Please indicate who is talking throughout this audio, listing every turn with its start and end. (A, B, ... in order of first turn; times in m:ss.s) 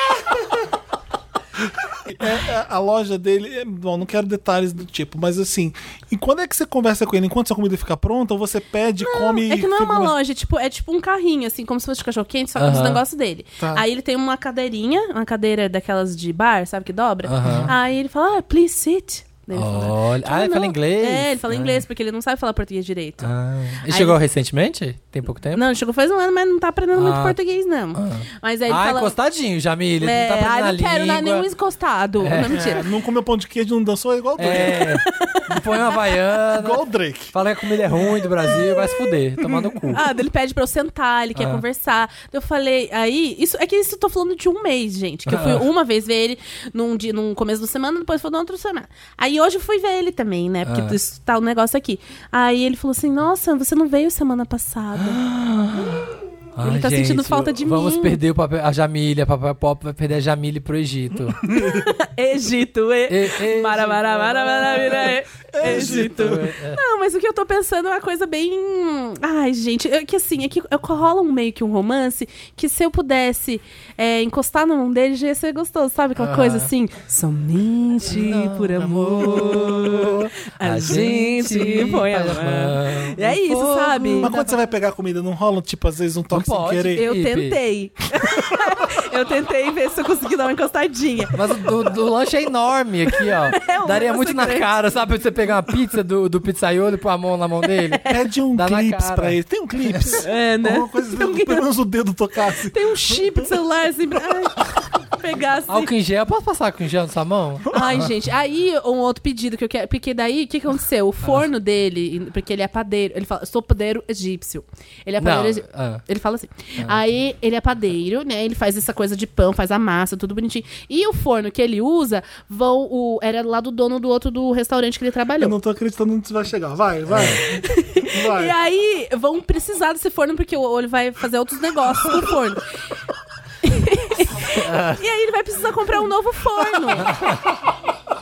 0:02.1-0:10.2 A
0:09.0-0:23.3 B
0:12.6-0:13.0 C
0:13.6-0:13.8 A
0:17.3-0:17.7 C
0:17.4-0:17.7 A
0:19.5-0:21.8 C
0:23.2-0:25.6 C
0:23.9-0:24.2 B
0:25.6-0:29.2 B
0:27.0-0:27.4 C
0:28.0-0:31.5 C
0:30.0-0:32.9 B
0:32.2-0:32.8 C
0:32.4-0:35.0 A
0:34.4-0:40.0 C
0:34.6-0:36.1 B
0:36.5-0:37.3 A
0:38.5-0:39.0 B
0:39.4-0:39.9 A
0:39.9-0:55.2 B
0:41.4-0:41.6 C
0:45.3-0:45.7 C
0:50.7-0:51.0 C
0:55.0-1:01.6 C
0:56.6-0:58.2 B
1:01.5-1:01.9 A
1:01.5-1:24.5 B
1:03.1-1:06.8 C
1:05.5-1:06.5 A
1:16.2-1:16.7 C
1:18.1-1:24.3 C
1:19.2-1:19.6 A
1:24.2-1:27.1 A
1:26.3-1:27.6 C
1:26.9-1:31.4 B
1:31.3-1:39.4 C
1:33.1-1:34.7 B
1:37.8-1:38.2 B
1:38.1-1:43.4 A
1:39.9-1:40.2 C
1:40.2-1:41.6 B
1:42.7-1:45.9 B
1:45.7-1:48.1 C
1:47.7-2:05.6 B
1:55.2-1:56.0 C
2:05.4-2:07.6 A
2:07.1-2:07.4 C
2:07.4-2:12.6 B
2:08.1-2:08.6 A
2:13.6-2:17.2 B
2:14.5-2:15.0 C
2:17.0-2:17.4 C